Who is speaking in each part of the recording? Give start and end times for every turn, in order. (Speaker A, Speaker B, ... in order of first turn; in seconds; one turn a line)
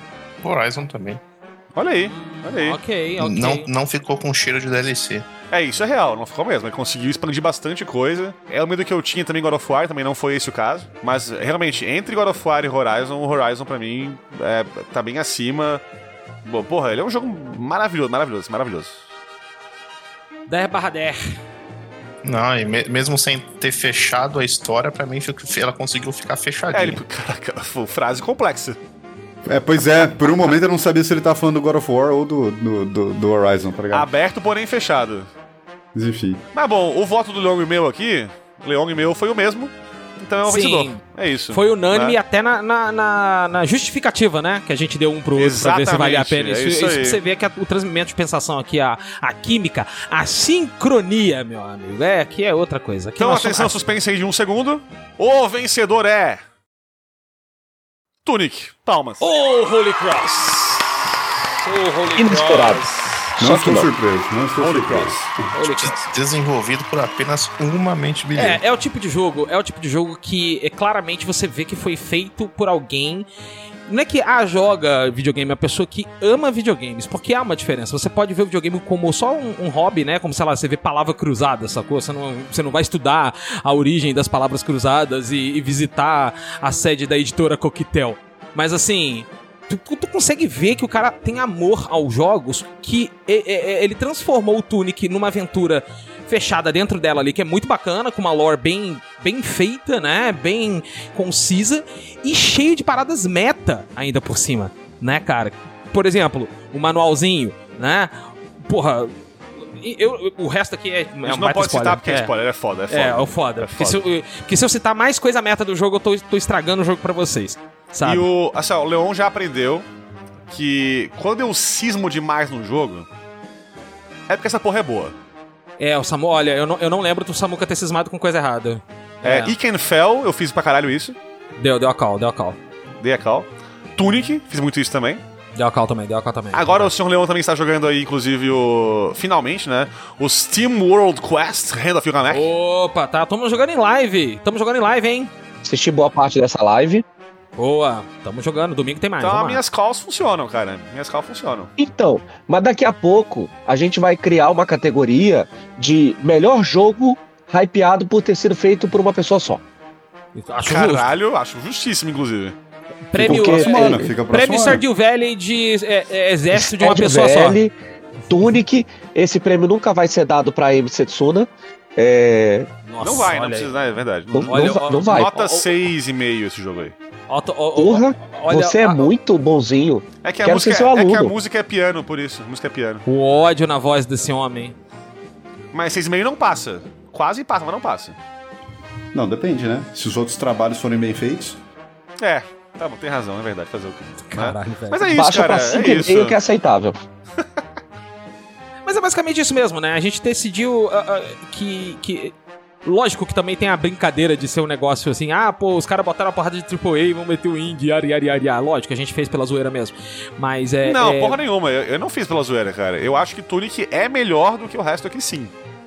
Speaker A: 0.4-1.2
Speaker B: 1.7-2.8
Speaker C: 2.0-3.7
Speaker A: 3.2-5.2
Speaker B: 5.5-15.8
Speaker B: 16.4-19.0
Speaker C: 20.5-21.3
Speaker A: 22.2-27.0
Speaker B: 26.7-28.8
Speaker D: 29.4-34.1
Speaker B: 33.9-35.3
Speaker D: 35.9-36.4
Speaker B: 36.5-42.2
Speaker C: 40.4-53.7
Speaker B: 45.4-47.2
Speaker B: 53.2-56.4
Speaker B: 58.2-59.2
Speaker C: 59.2-61.0
Speaker C: 61.6-63.2
Speaker E: 62.2-62.8
Speaker D: 63.4-65.3
Speaker E: 63.4-63.9
Speaker B: 64.6-65.3
Speaker C: 65.5-66.1
Speaker A: 65.6-68.6
Speaker C: 68.3-73.3
Speaker C: 73.9-108.1
Speaker C: 108.6-112.3
Speaker B: 111.2-114.0
Speaker C: 112.9-118.2
Speaker B: 118.0-119.9
Speaker B: 120.5-123.1
Speaker B: 124.3-125.1
Speaker C: 125.8-129.5
Speaker B: 129.2-131.2
Speaker C: 131.6-132.6
Speaker B: 133.0-135.2
Speaker C: 135.6-136.9
Speaker B: 136.5-142.5
Speaker C: 142.3-145.3
Speaker E: 145.6-147.0
Speaker C: 147.6-149.6
Speaker B: 149.2-151.7
Speaker E: 151.8-159.6
Speaker C: 160.3-161.1
Speaker B: 160.7-162.5
Speaker C: 163.1-167.6
Speaker D: 163.2-164.8
Speaker E: 163.2-164.1
Speaker E: 166.5-167.7
Speaker E: 168.3-172.7
Speaker C: 172.8-173.7
Speaker B: 173.0-176.9
Speaker E: 174.3-175.3
Speaker C: 174.4-175.7
Speaker C: 177.3-179.1
Speaker E: 177.8-181.3
Speaker B: 180.2-183.0
Speaker C: 183.1-184.8
Speaker B: 185.7-188.2
Speaker D: 189.1-191.6
Speaker B: 192.2-196.3
Speaker C: 194.3-195.1
Speaker E: 195.1-196.9
Speaker C: 198.8-211.4
Speaker B: 210.8-215.5